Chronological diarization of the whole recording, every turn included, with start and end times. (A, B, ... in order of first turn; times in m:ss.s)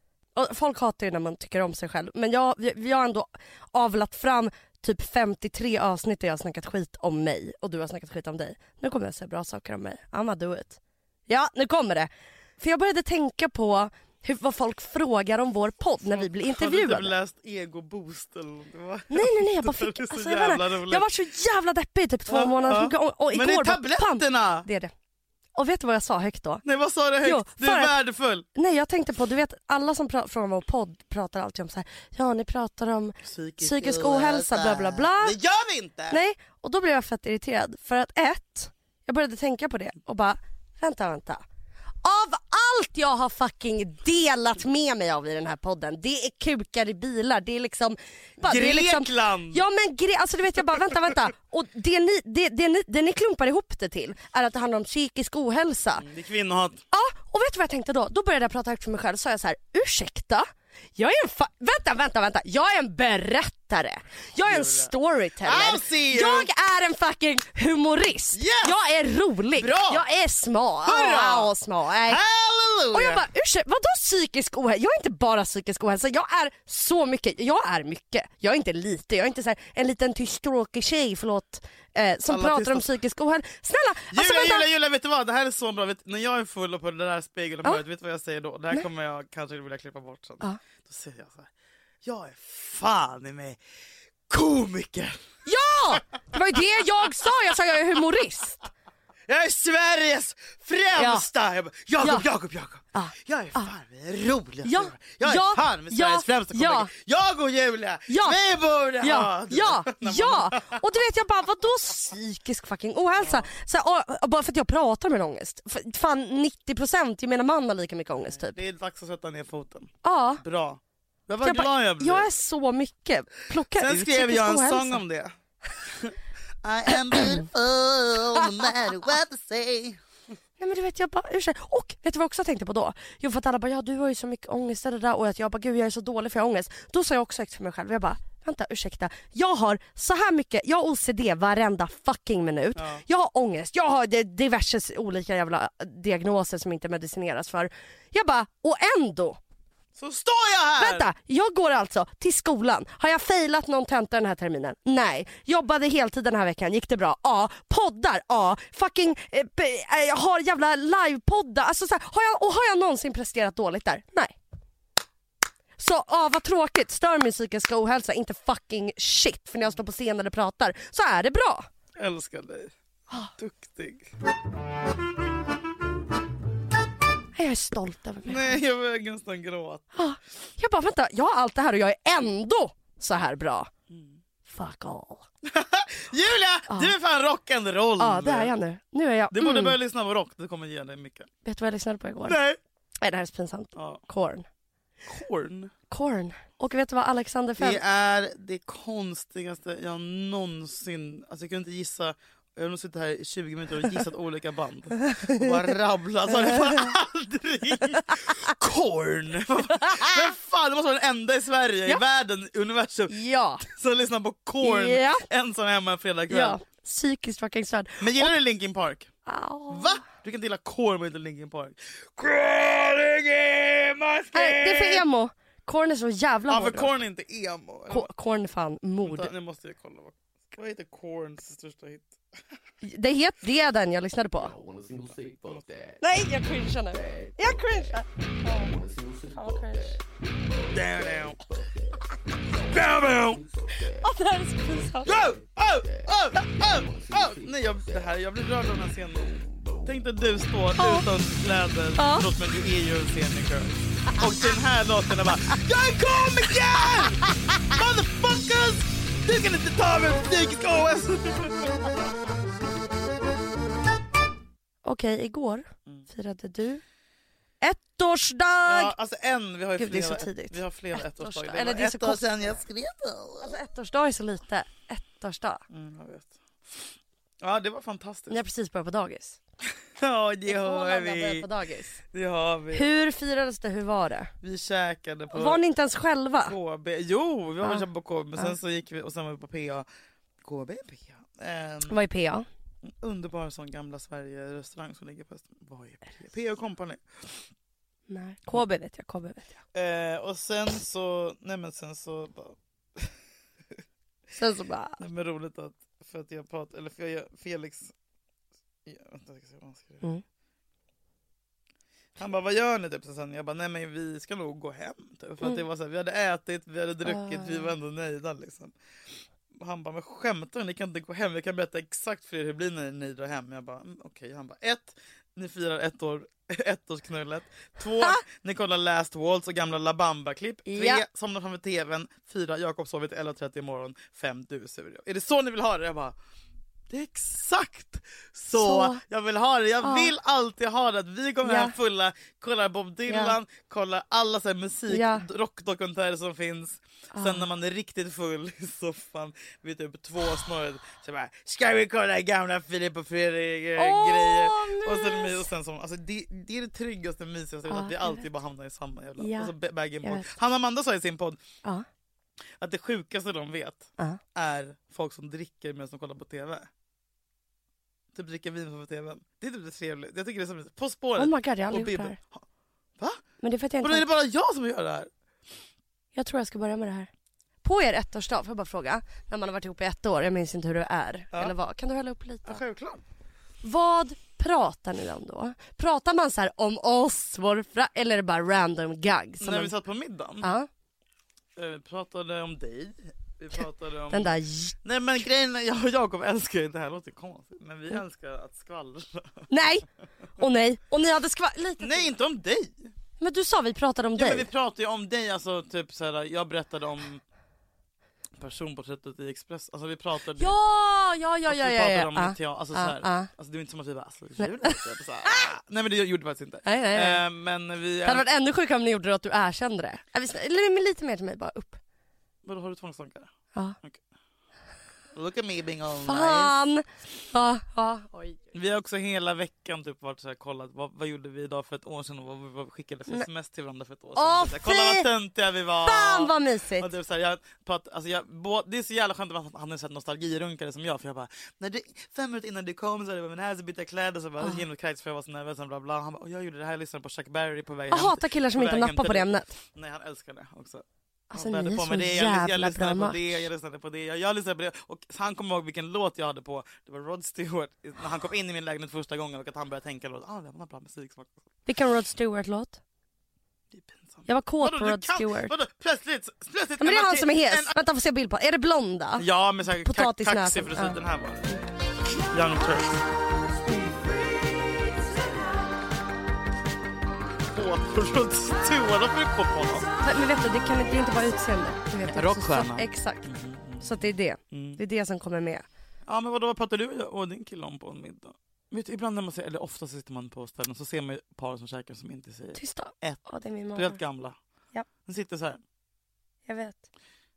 0:00.3-0:17.1 A
0:16.1-0:21.1 B
0:19.1-0:24.9 A
0:22.3-0:24.7 B
0:25.6-0:26.6 A
0:26.6-0:28.4 B
0:27.2-0:27.9 A
0:28.5-0:35.4 A
0:33.2-0:36.2 B
0:36.1-0:41.4 A
0:42.0-0:56.0 A
0:48.4-0:49.6 B
0:56.0-0:56.8 B
0:56.9-1:00.4 A
1:01.0-1:12.2 A
1:04.4-1:06.5 B
1:08.3-1:08.8 B
1:09.5-1:10.0 B
1:10.8-1:11.5 B
1:12.0-1:13.2 B
1:12.9-1:24.7 A
1:22.3-1:22.9 B
1:24.1-1:31.5 B
1:32.0-1:33.6 B
1:34.3-1:35.2 B
1:35.4-1:38.6 A
1:39.3-1:50.8 B
1:40.9-1:41.2 A
1:42.0-1:42.2 A
1:42.9-1:43.7 A
1:44.6-1:46.9 A
1:48.1-1:48.4 A
1:49.0-1:58.6 A
1:53.2-1:53.5 B
1:58.3-2:02.3 B
2:00.0-2:00.4 A
2:01.4-2:05.0 A
2:03.7-2:10.0 B
2:07.1-2:07.4 A
2:10.6-2:29.4 A
2:22.8-2:23.0 B
2:29.9-2:31.1 B
2:30.8-2:44.3 A
2:45.8-2:51.7 A
2:52.0-2:52.7 B
2:53.4-2:54.1 B
2:57.3-2:58.6 A
2:58.2-2:59.8 B
2:59.9-3:03.7 A
3:03.9-3:04.2 B
3:04.4-3:05.2 A
3:05.4-3:08.5 B
3:08.0-3:09.8 A
3:09.3-3:11.3 B
3:11.4-3:12.4 A
3:12.2-3:12.6 B
3:13.0-3:14.4 A
3:13.8-3:14.0 B
3:15.0-3:15.7 B
3:15.9-3:17.8 A
3:17.6-3:36.6 B
3:25.1-3:25.5 A
3:26.4-3:26.8 A
3:29.7-3:30.3 A
3:33.1-3:33.6 A
3:34.6-3:35.2 A
3:36.3-3:38.3 A
3:38.0-3:39.1 B
3:39.2-3:40.0 A
3:39.7-3:45.0 B
3:44.3-3:46.9 A
3:46.5-3:48.1 B
3:47.9-3:49.3 A
3:49.0-3:52.1 B
3:52.8-3:54.6 A
3:54.6-3:55.9 C
3:55.1-3:55.7 B
3:56.0-4:00.0 A
3:58.7-3:59.3 C
4:00.7-4:01.4 B
4:02.6-4:03.5 B
4:03.8-4:05.2 A
4:05.0-4:22.0 B
4:10.8-4:11.1 A
4:12.0-4:12.3 A
4:24.8-4:26.8 A
4:27.6-4:28.9 A
4:28.6-4:33.5 B
4:29.8-4:32.6 A
4:33.4-4:35.6 A
4:35.7-4:38.4 B
4:38.3-4:39.4 A
4:39.7-4:41.5 B
4:40.5-4:42.0 A
4:42.0-4:42.9 B
4:42.7-4:44.3 A
4:44.4-4:45.6 B
4:45.3-4:46.5 A
4:46.4-4:49.9 B
4:50.4-4:52.0 B
4:51.9-4:52.4 A
4:52.8-4:57.4 B
4:58.1-4:59.5 A
4:59.7-5:03.2 B
5:04.3-5:05.0 A
5:05.0-5:07.9 B
5:08.8-5:10.0 B
5:12.2-5:18.7 B
5:17.0-5:17.7 A
5:19.5-5:36.2 B
5:30.7-5:31.0 A
5:36.9-6:01.4 B
5:38.6-5:39.0 A
5:39.8-5:40.1 A
5:41.4-5:41.7 A
5:43.1-5:43.4 A
5:44.9-5:45.2 A
5:47.1-5:47.4 A
5:53.8-5:55.5 A
5:57.7-5:58.2 A
5:59.2-6:00.3 A
6:02.6-6:06.7 B
6:08.1-6:12.4 B
6:11.2-6:12.2 A
6:13.4-6:14.0 A
6:13.8-6:15.1 B
6:16.1-6:17.1 A
6:17.6-6:22.6 A
6:22.4-6:23.0 B
6:23.6-6:29.7 A
6:29.4-6:30.5 B
6:30.4-6:30.7 A
6:31.6-6:39.5 B
6:34.1-6:34.8 A
6:39.5-6:39.8 A
6:40.4-6:42.1 A
6:41.8-6:42.9 B
6:43.2-6:44.5 A
6:44.2-6:47.2 B
6:48.4-6:50.6 B
6:50.4-6:53.3 A
6:51.5-6:58.2 B
6:54.4-6:55.5 A
6:56.6-6:57.2 A
6:58.0-7:01.8 A
7:02.4-7:03.3 B
7:05.1-7:06.5 B
7:06.0-7:08.4 A
7:08.5-7:41.4 B
7:14.2-7:15.1 A
7:15.8-7:16.9 A
7:27.9-7:29.6 A
7:31.3-7:33.5 A
7:41.6-7:42.8 A
7:43.7-7:47.7 B
7:44.2-7:45.5 A
7:46.8-7:51.0 A
7:49.2-7:51.6 B
7:52.3-7:53.0 B
7:57.4-7:59.9 B
8:00.0-8:03.3 A
8:02.1-8:04.0 B
8:03.8-8:05.6 A
8:04.5-8:04.8 B
8:06.0-8:13.2 B
8:12.6-8:14.0 A
8:13.7-8:14.4 B
8:15.0-8:15.6 B
8:16.4-8:16.8 A